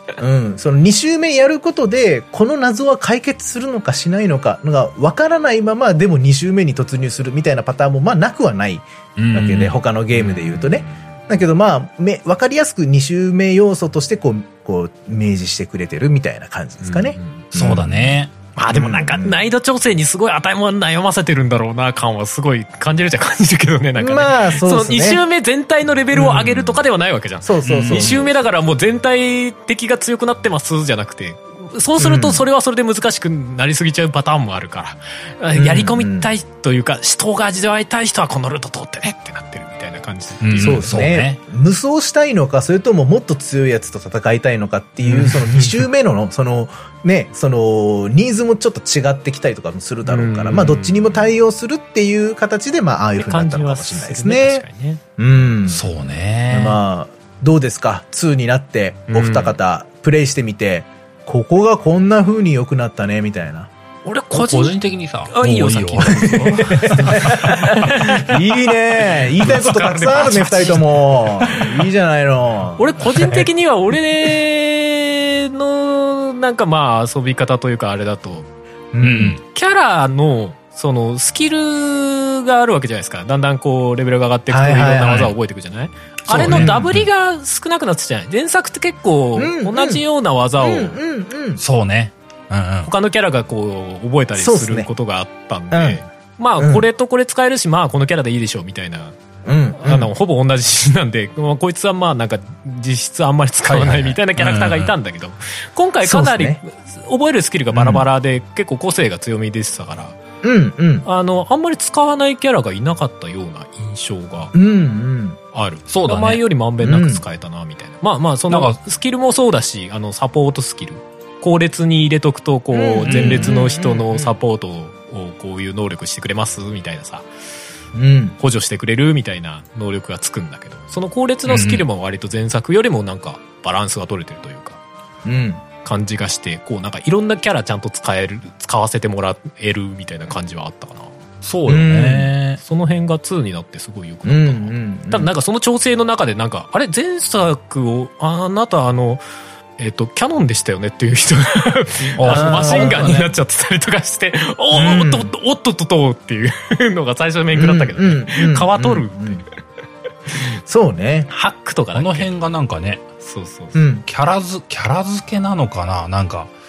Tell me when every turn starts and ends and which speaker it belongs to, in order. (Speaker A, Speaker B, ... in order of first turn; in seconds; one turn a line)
Speaker A: 0.2-18.2
Speaker B: 9.2-9.8
Speaker C: 10.1-11.1
Speaker C: 16.8-17.4
Speaker B: 17.5-18.3
Speaker C: 18.6-41.0
Speaker A: 18.7-19.4
Speaker A: 24.0-25.2
Speaker A: 26.1-26.8
Speaker A: 27.4-28.4
Speaker B: 27.6-28.1
Speaker A: 32.0-32.4
Speaker A: 35.5-36.3
Speaker B: 40.4-41.4
Speaker A: 40.5-54.6
Speaker C: 45.0-45.8
Speaker C: 50.0-51.3
Speaker C: 53.1-55.0
Speaker A: 55.2-55.8
Speaker B: 55.6-56.8
Speaker A: 56.5-63.7
Speaker C: 59.1-59.6
Speaker C: 64.0-71.8
Speaker B: 64.3-67.9
Speaker A: 66.3-73.5
Speaker C: 72.8-78.5
Speaker A: 78.9-79.4
Speaker B: 79.0-79.4
Speaker C: 79.4-91.0
Speaker A: 84.5-85.3
Speaker B: 86.3-87.0
Speaker A: 86.3-87.0
Speaker A: 89.3-90.0
Speaker A: 90.6-91.6
Speaker B: 91.6-92.9
Speaker C: 92.8-99.2
Speaker A: 94.4-94.9
Speaker A: 95.7-96.0
Speaker A: 96.6-96.8
Speaker A: 99.4-100.1
Speaker C: 99.8-110.2
Speaker B: 103.6-104.9
Speaker A: 106.0-106.6
Speaker A: 107.7-108.0
Speaker A: 110.4-111.0
Speaker C: 111.0-114.5
Speaker A: 114.5-115.4
Speaker C: 115.5-127.2
Speaker B: 115.9-116.4
Speaker A: 116.8-117.2
Speaker B: 118.5-118.8
Speaker A: 122.7-124.3
Speaker B: 123.0-123.6
Speaker A: 127.9-128.4
Speaker C: 128.4-134.8
Speaker B: 131.5-131.8
Speaker A: 135.2-135.6
Speaker C: 135.8-141.1
Speaker B: 141.4-142.6
Speaker A: 141.7-142.3
Speaker C: 142.6-149.2
Speaker A: 144.2-145.3
Speaker C: 149.8-159.4
Speaker B: 152.2-153.3
Speaker A: 152.2-153.3
Speaker A: 154.7-155.3
Speaker A: 157.5-159.4
Speaker C: 160.3-160.6
Speaker A: 160.6-161.3
Speaker C: 161.3-162.3
Speaker B: 161.9-163.0
Speaker C: 163.2-163.8
Speaker A: 163.7-164.0
Speaker B: 164.1-166.5